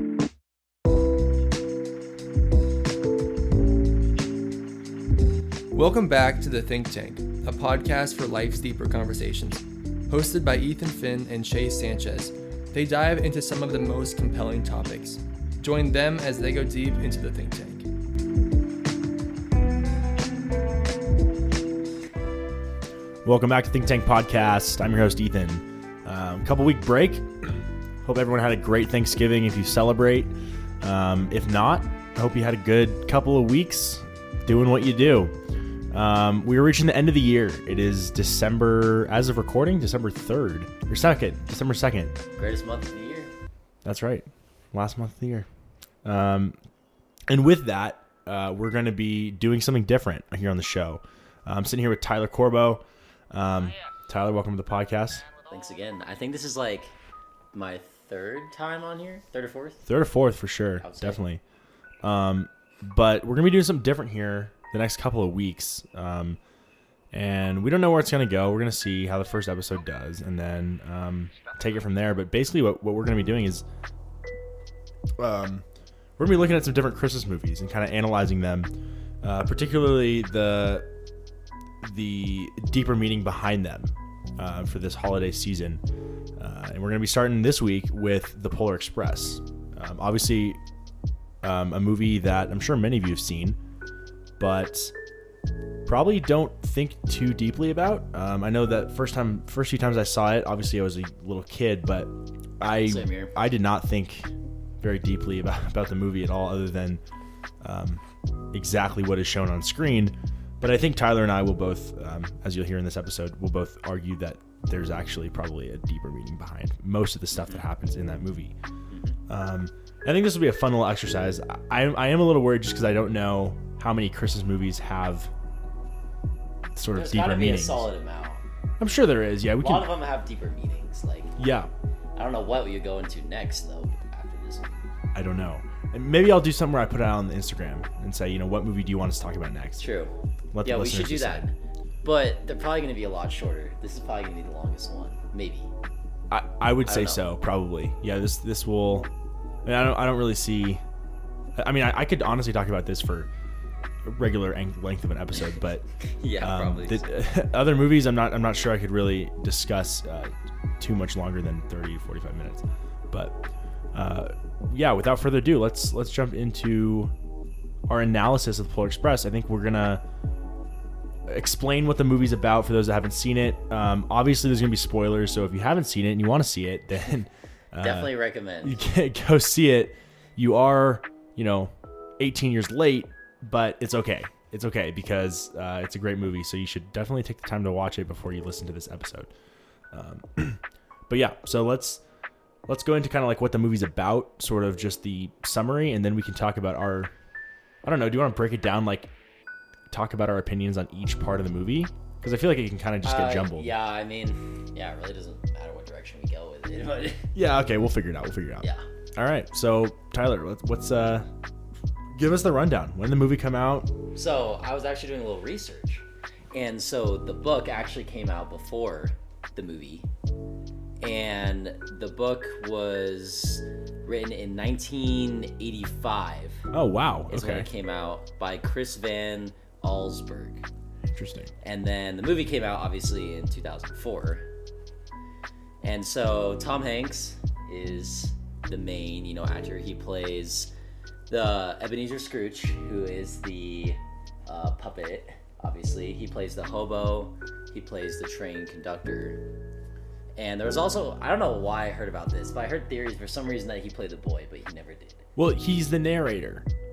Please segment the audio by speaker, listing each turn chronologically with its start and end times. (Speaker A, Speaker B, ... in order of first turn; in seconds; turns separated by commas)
Speaker A: 5.7-17.9, Speaker B: 23.2-35.3, Speaker B: 35.9-42.1, Speaker C: 42.4-43.3, Speaker B: 43.8-45.5, Speaker B: 46.0-46.6, Speaker B: 47.3-55.3, Speaker C: 55.4-56.9, Speaker C: 57.5-59.8, Speaker B: 59.9-61.4, Speaker C: 60.8-61.2, Speaker B: 62.0-66.4, Speaker B: 67.1-73.6, Speaker B: 75.2-75.7, Speaker B: 76.2-78.7, Speaker B: 79.2-80.8, Speaker B: 81.8-85.8, Speaker B: 86.4-90.6, Speaker B: 91.4-93.6, Speaker B: 94.4-94.9, Speaker B: 95.8-107.0, Speaker C: 102.8-103.3, Speaker B: 107.6-108.0, Speaker B: 108.5-118.5, Speaker C: 117.3-117.6, Speaker C: 118.9-119.2, Speaker B: 119.3-125.3, Speaker B: 126.8-127.9, Speaker C: 126.9-128.4, Speaker B: 128.8-129.9, Speaker C: 129.6-131.3, Speaker B: 131.4-131.7, Speaker C: 132.2-134.9, Speaker B: 135.1-139.9, Speaker C: 139.8-140.1, Speaker B: 140.5-141.5, Speaker C: 140.6-145.7, Speaker B: 146.3-149.1, Speaker C: 146.8-147.2, Speaker B: 149.6-150.8, Speaker B: 151.6-153.3, Speaker B: 154.1-155.8, Speaker C: 156.1-157.1, Speaker B: 156.4-163.4, Speaker B: 163.9-167.1, Speaker B: 167.9-170.0, Speaker B: 171.3-178.1, Speaker C: 177.8-178.8, Speaker B: 178.6-189.3, Speaker B: 189.9-192.0, Speaker B: 192.7-197.1, Speaker B: 197.8-199.1, Speaker B: 199.9-203.7, Speaker C: 203.0-207.3, Speaker B: 207.3-211.3, Speaker B: 212.1-213.9, Speaker C: 214.1-220.1, Speaker C: 221.0-226.7, Speaker B: 226.7-227.7, Speaker C: 227.3-230.7, Speaker B: 231.1-231.5, Speaker C: 231.6-234.4, Speaker C: 235.8-240.7, Speaker C: 241.3-249.4, Speaker C: 250.4-255.2, Speaker B: 255.3-256.6